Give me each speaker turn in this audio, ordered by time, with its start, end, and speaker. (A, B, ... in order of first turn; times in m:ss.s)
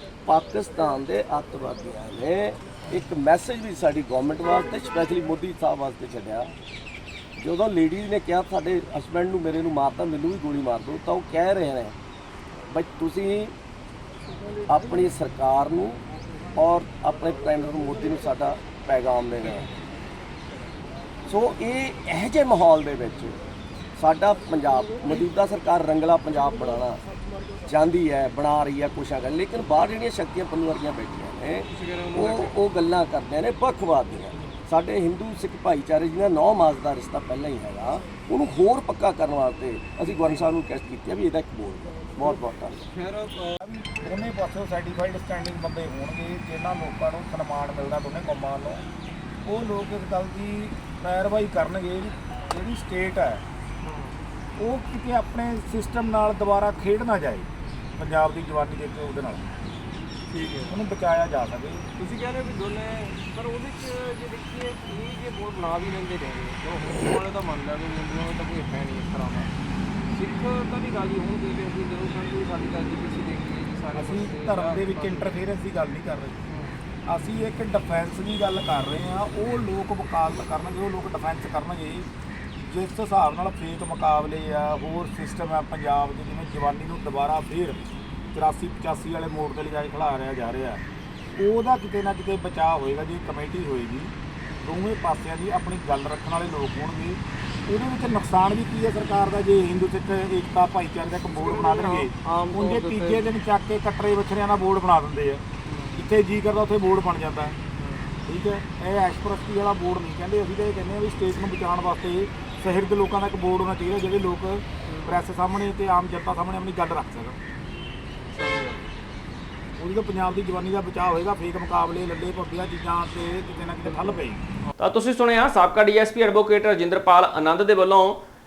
0:00.3-0:06.6 A
0:07.4-0:12.0 A
0:12.7-0:13.6 A
0:14.7-0:16.0 A
0:16.6-0:19.7 A
0:21.3-0:23.4 A
0:24.0-0:27.0 A
0:27.7-0:42.9 A
0:31.7-0:32.5 B
0:43.0-0:43.6 B
0:43.6-0:48.9 C
0:49.4-0:53.4 C
0:53.8-0:54.2 B
0:54.6-0:59.5 C
1:00.3-1:00.8 B
1:00.7-1:01.9 C
1:02.0-1:09.5 B
1:10.1-1:15.4 B
1:14.0-1:16.4 C
1:16.5-1:16.8 B
1:17.1-1:22.1 C
1:22.6-1:27.8 C
1:28.3-1:30.8 C
1:31.4-1:47.6 C
1:41.3-1:43.3 B
1:45.7-1:46.1 B
1:47.8-1:48.2 B
1:48.3-1:57.4 C
1:54.8-1:55.2 B
1:58.3-1:58.8 B
1:59.8-2:04.4 C
2:04.8-2:08.2 D